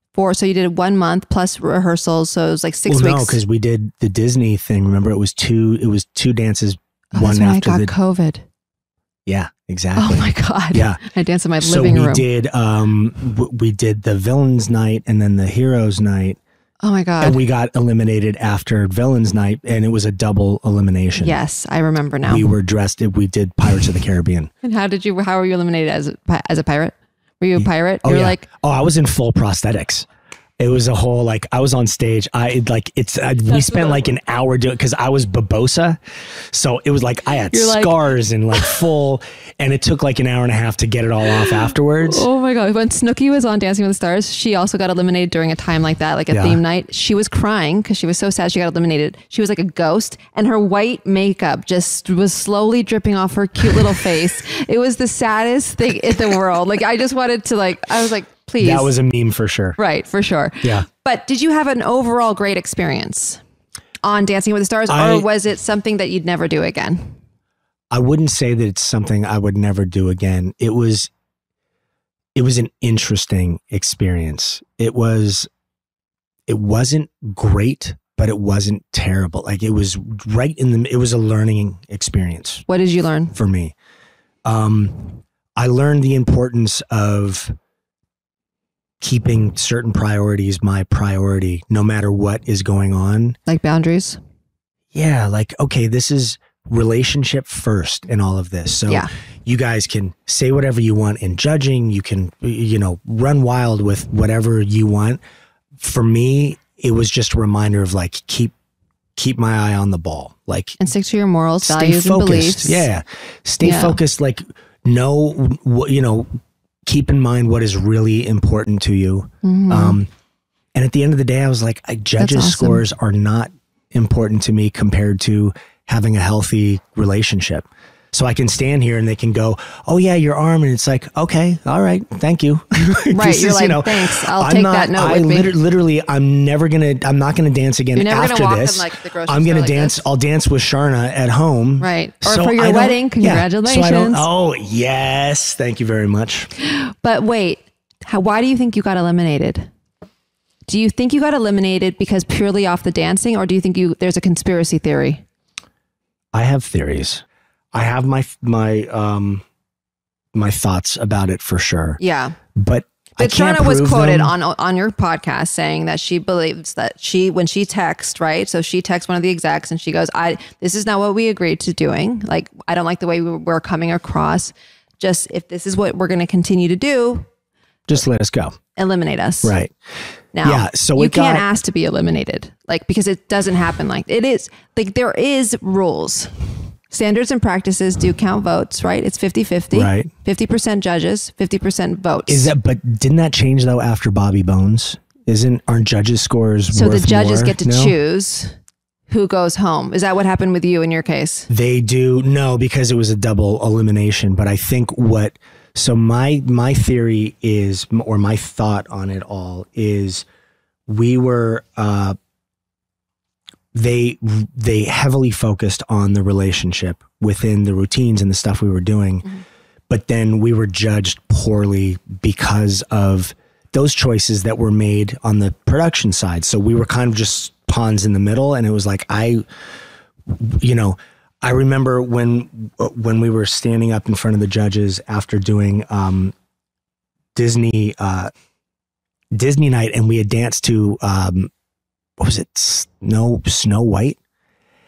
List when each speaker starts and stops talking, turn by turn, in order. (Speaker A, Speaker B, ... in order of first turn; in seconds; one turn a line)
Speaker A: 0.1-3.4
Speaker B: 2.9-7.9
Speaker A: 7.1-8.4
Speaker B: 9.2-11.0
Speaker A: 9.9-12.2
Speaker B: 11.6-16.4
Speaker A: 16.8-17.4
Speaker B: 17.2-21.4
Speaker A: 21.2-22.5
Speaker B: 22.2-24.5
Speaker A: 24.6-28.4
Speaker B: 27.6-30.1
Speaker B: 30.6-36.0
Speaker A: 33.5-34.1
Speaker B: 36.5-42.3
Speaker A: 37.5-38.0
Speaker A: 41.4-58.9
Speaker B: 46.3-46.6
Speaker B: 58.6-59.8
Speaker A: 59.8-63.4
Speaker A: 64.0-67.2
Speaker B: 64.9-65.3
Speaker B: 67.9-71.1
Speaker B: 72.3-75.5
Speaker B: 76.5-82.6
Speaker A: 82.7-83.3
Speaker B: 83.3-83.7
Speaker B: 84.4-87.5
Speaker B: 89.0-93.4
Speaker A: 93.5-94.2
Speaker B: 94.9-105.2
Speaker B: 105.8-108.5
Speaker B: 109.2-110.8
Speaker A: 110.8-112.9
Speaker B: 111.6-120.1
Speaker A: 113.6-114.0
Speaker A: 119.4-120.0
Speaker B: 120.7-146.5
Speaker A: 122.2-122.8
Speaker A: 133.1-135.5
Speaker A: 137.9-140.0
Speaker A: 141.8-144.2
Speaker A: 146.6-149.7
Speaker A: 150.7-155.2
Speaker B: 156.3-159.4
Speaker B: 160.3-162.0
Speaker A: 162.0-162.3
Speaker B: 162.5-164.3
Speaker A: 163.2-177.3
Speaker B: 177.9-178.6
Speaker A: 178.7-179.5
Speaker B: 179.4-179.7
Speaker A: 180.3-186.3
Speaker B: 180.4-181.4
Speaker A: 186.9-192.5
Speaker B: 189.7-190.1
Speaker B: 192.3-197.9
Speaker A: 196.7-198.5
Speaker A: 199.1-201.5
Speaker B: 201.5-210.2
Speaker B: 210.9-212.2
Speaker B: 213.7-219.2
Speaker B: 219.9-229.4
Speaker B: 230.3-236.3
Speaker B: 237.3-238.3
Speaker B: 239.3-241.5
Speaker B: 242.2-244.2